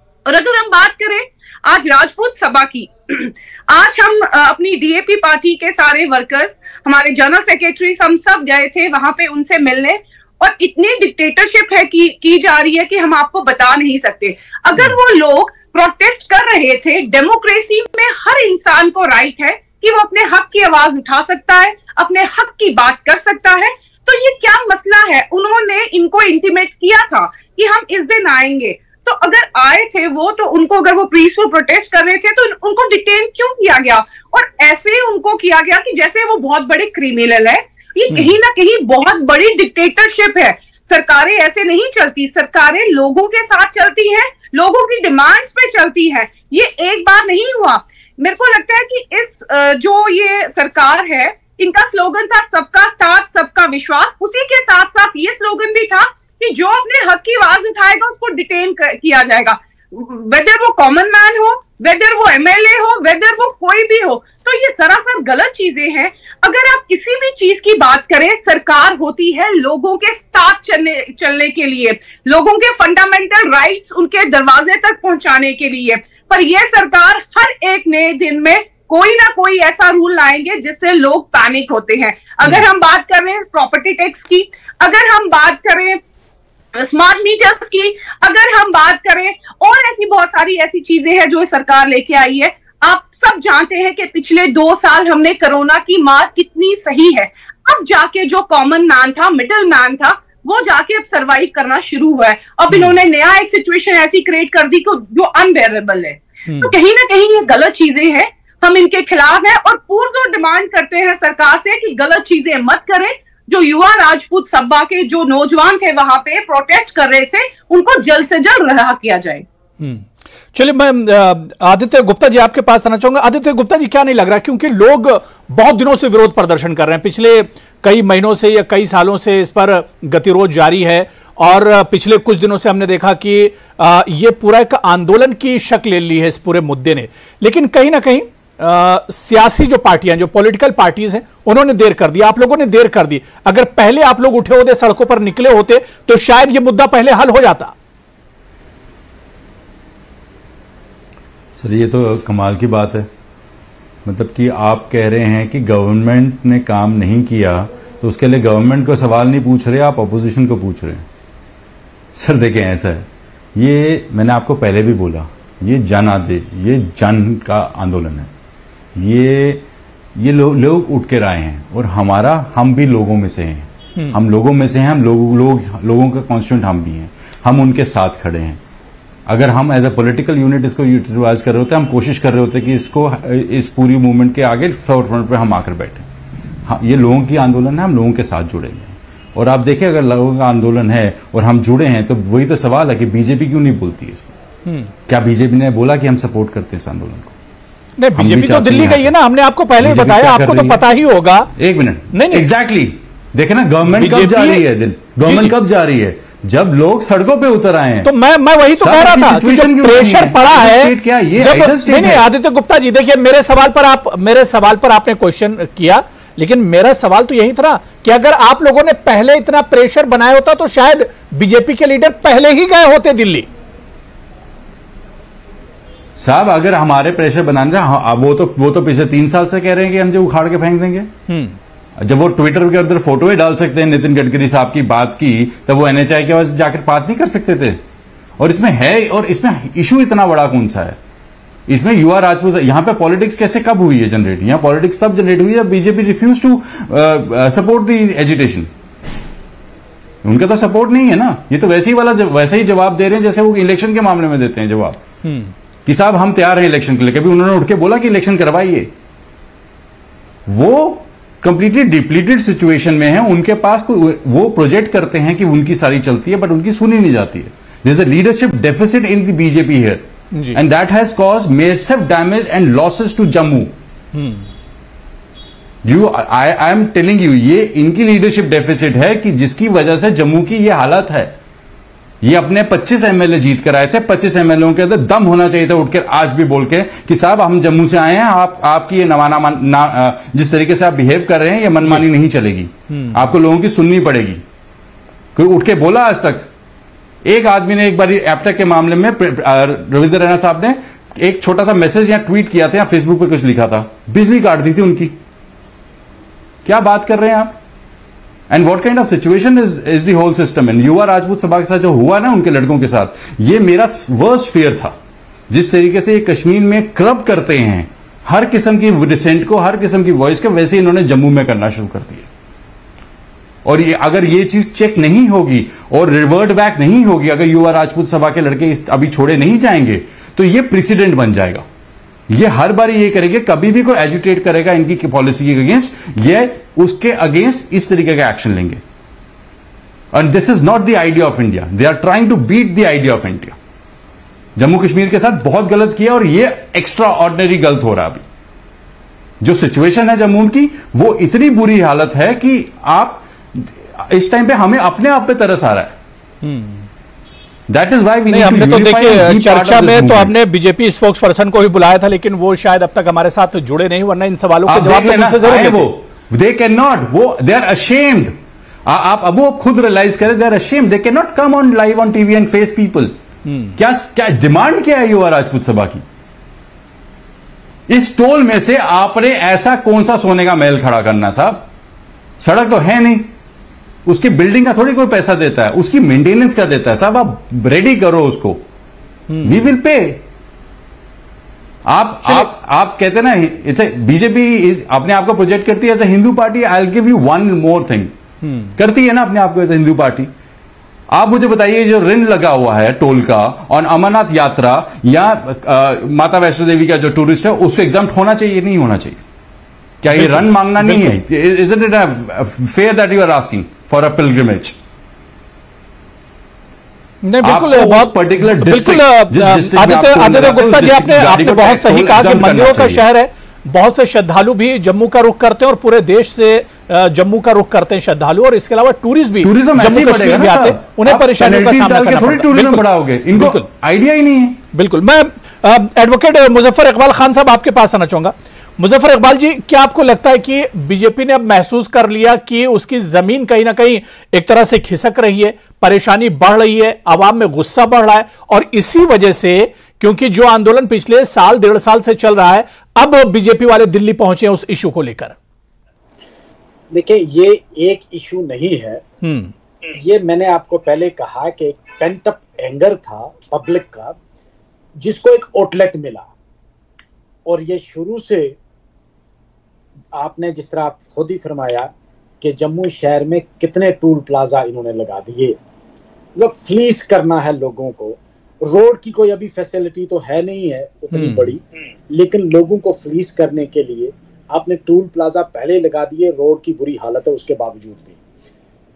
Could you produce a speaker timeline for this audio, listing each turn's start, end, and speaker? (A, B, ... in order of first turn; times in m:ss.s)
0:00.3-1:26.0 A
1:26.8-1:59.4 A
1:46.5-1:46.7 B
1:59.8-2:27.8 B
2:31.6-2:33.1 C
2:34.1-2:41.0 C
2:42.2-2:48.3 C
2:49.0-2:49.6 C
2:50.2-2:58.6 C
2:59.3-3:06.1 C
3:06.7-3:14.3 C
3:15.1-3:17.3 C
3:18.0-3:21.5 B
3:18.2-3:19.1 C
3:19.8-3:20.8 C
3:21.6-3:28.1 C
3:22.1-3:22.5 B
3:23.9-3:24.7 B
3:25.2-3:25.6 B
3:28.0-3:43.5 B
3:28.8-3:32.2 C
3:46.2-3:51.1 C
3:51.3-3:51.6 B
3:52.0-3:57.8 C
3:58.4-4:01.0 C
4:01.7-4:08.7 C
4:10.2-4:15.0 C
4:15.2-4:15.5 B
4:15.8-4:18.9 C
4:20.5-4:33.7 C
4:30.3-4:30.6 B
4:34.1-4:34.5 B
4:35.8-4:41.4 C
4:42.2-4:54.4 C
4:52.9-4:53.2 B
4:55.4-4:56.5 C
4:57.2-5:05.2 C
5:06.6-5:07.6 C
5:08.5-5:15.0 C
5:15.5-5:22.3 C
5:23.6-5:31.6 C
5:32.3-5:38.8 C
5:40.1-5:43.6 C
5:44.6-5:48.2 C
5:49.4-5:56.0 C
5:56.4-5:56.9 B
5:57.7-6:00.3 C
5:58.3-6:05.9 B
6:04.7-6:13.2 C
6:13.4-6:13.8 B
6:13.8-6:16.0 C
6:17.9-6:21.7 C
6:22.4-6:23.3 C
6:24.1-6:28.6 C
6:29.3-6:29.7 B
6:29.4-6:30.2 C
6:31.9-6:38.1 C
6:32.2-6:32.5 B
6:38.4-6:38.8 B
6:38.8-6:40.3 C
6:41.1-6:49.2 C
6:50.0-6:54.8 C
6:50.1-6:51.2 B
6:57.2-7:13.7 B
6:57.4-7:03.0 C
7:09.4-7:14.6 C
7:14.7-7:35.4 B
7:36.9-7:39.0 D
7:39.2-7:39.5 B
7:39.9-7:44.2 D
7:45.0-7:46.3 D
7:47.5-7:48.6 D
7:50.2-7:55.6 D
7:56.4-8:08.2 D
8:01.1-8:01.5 B